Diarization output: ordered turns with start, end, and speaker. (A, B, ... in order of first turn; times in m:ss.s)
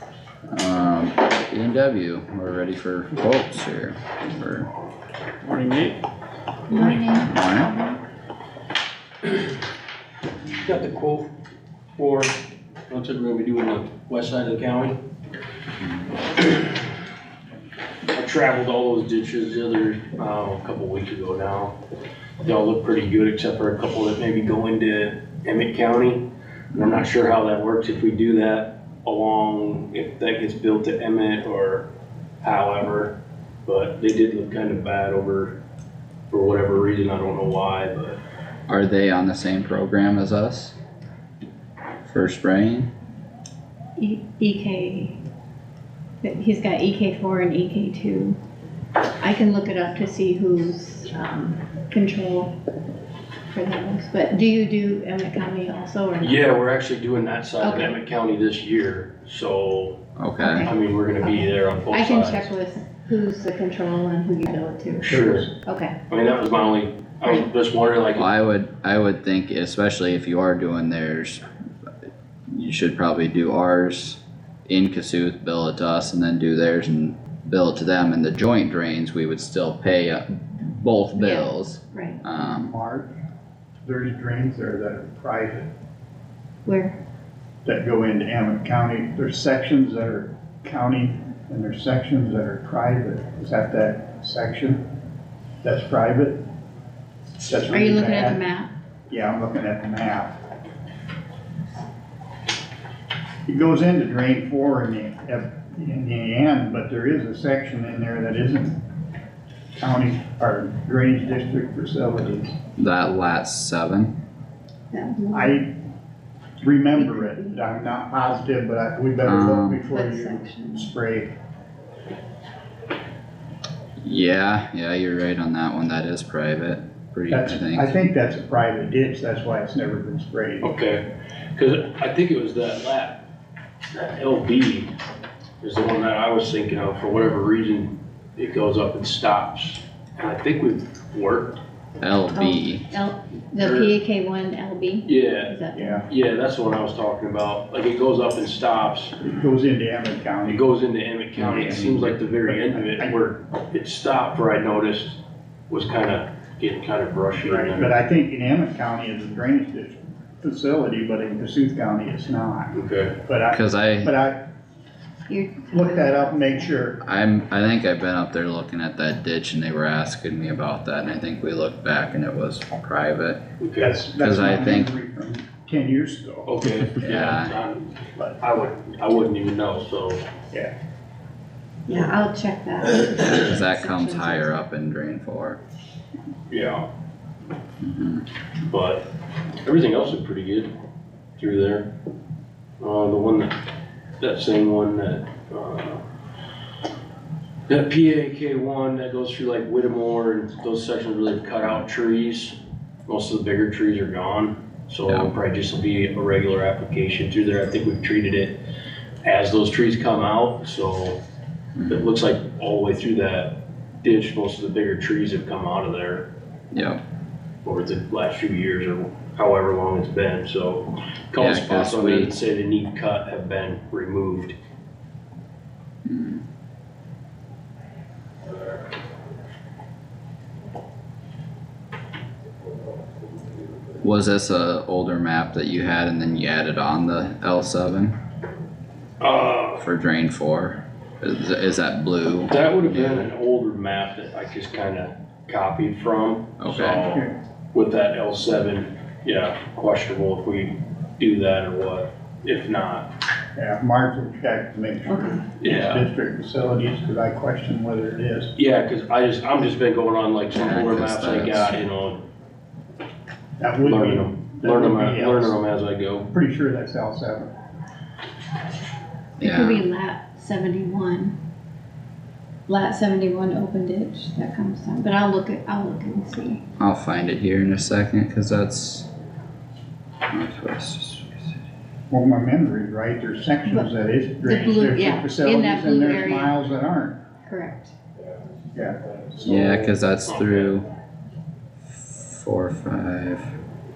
0:00.5-0:04.7 A
0:05.4-0:06.0 B
0:06.7-0:08.0 C
0:07.3-0:07.7 A
0:10.6-0:11.3 B
0:12.0-0:12.4 B
0:12.9-0:15.0 B
0:16.4-0:16.7 B
0:18.1-0:21.8 B
0:22.4-0:31.9 B
0:32.4-0:35.6 B
0:36.3-0:38.2 B
0:38.7-0:40.8 A
0:42.1-0:42.9 A
0:44.0-0:45.2 C
0:46.2-0:48.4 C
0:49.2-0:52.6 C
0:53.5-0:56.4 C
0:56.2-1:00.0 B
0:57.6-0:58.0 C
1:00.2-1:00.7 A
1:00.4-1:06.0 C
1:00.6-1:02.5 B
1:05.0-1:05.5 D
1:05.1-1:05.5 B
1:06.1-1:08.3 B
1:08.2-1:11.4 A
1:12.5-1:22.7 A
1:21.2-1:22.2 C
1:22.4-1:23.1 D
1:23.8-1:25.7 D
1:26.6-1:27.0 C
1:27.6-1:34.8 D
1:35.6-1:36.4 D
1:37.4-1:38.4 D
1:37.7-1:38.7 C
1:39.1-1:40.3 D
1:43.5-1:48.8 D
1:49.8-1:52.6 D
1:52.8-1:54.1 A
1:54.9-1:55.6 C
1:55.3-1:55.7 D
1:56.6-2:01.3 D
1:57.0-1:57.6 C
1:59.2-1:59.8 A
1:59.9-2:00.9 C
2:04.0-2:08.0 A
2:07.3-2:10.7 D
2:10.6-2:13.2 B
2:13.9-2:14.9 B
2:15.6-2:21.6 B
2:22.0-2:22.9 A
2:22.4-2:26.0 C
2:23.6-2:24.0 B
2:25.0-2:25.6 B
2:25.8-2:26.1 D
2:26.1-2:29.2 B
2:29.2-2:30.7 D
2:30.4-2:38.0 B
2:31.4-2:32.2 A
2:31.4-2:31.8 D
2:32.4-2:33.2 D
2:37.4-2:44.4 D
2:42.7-2:43.2 B
2:43.5-2:44.1 A
2:45.3-2:46.7 C
2:45.7-2:47.0 D
2:47.0-2:53.4 A
2:53.6-2:54.1 B
2:53.8-2:56.6 D
2:54.2-2:54.9 A
2:56.4-3:00.2 B
2:57.0-2:57.6 A
3:01.9-3:04.5 C
3:03.1-3:05.6 A
3:06.5-3:06.9 B
3:07.8-3:08.3 A
3:08.7-3:09.1 B
3:09.6-3:10.7 B
3:11.4-3:11.9 B
3:12.8-3:13.6 B
3:14.2-3:16.0 B
3:17.7-3:28.6 B
3:29.2-3:31.2 B
3:31.8-3:32.0 A
3:31.9-3:36.3 B
3:36.7-3:37.0 A
3:37.6-3:44.6 B
3:41.4-3:42.3 A
3:46.1-3:46.4 A
3:54.0-3:58.2 A
3:59.2-3:59.8 B
3:59.8-4:03.3 A
4:02.5-4:13.1 B
4:06.6-4:07.1 A
4:07.0-4:07.4 D
4:13.6-4:18.5 D
4:15.1-4:15.4 C
4:15.6-4:16.1 B
4:18.6-4:22.2 B
4:20.5-4:21.8 A
4:23.6-4:25.6 D
4:23.8-4:26.3 B
4:26.3-4:27.5 D
4:29.4-4:29.8 A
4:29.4-4:31.4 C
4:32.7-4:36.6 C
4:36.8-4:39.1 A
4:40.3-4:41.5 A
4:42.1-4:47.2 D
4:44.4-4:46.6 C
4:47.4-4:47.9 C
4:49.4-4:50.7 B
4:49.4-4:50.9 A
4:51.9-4:53.5 A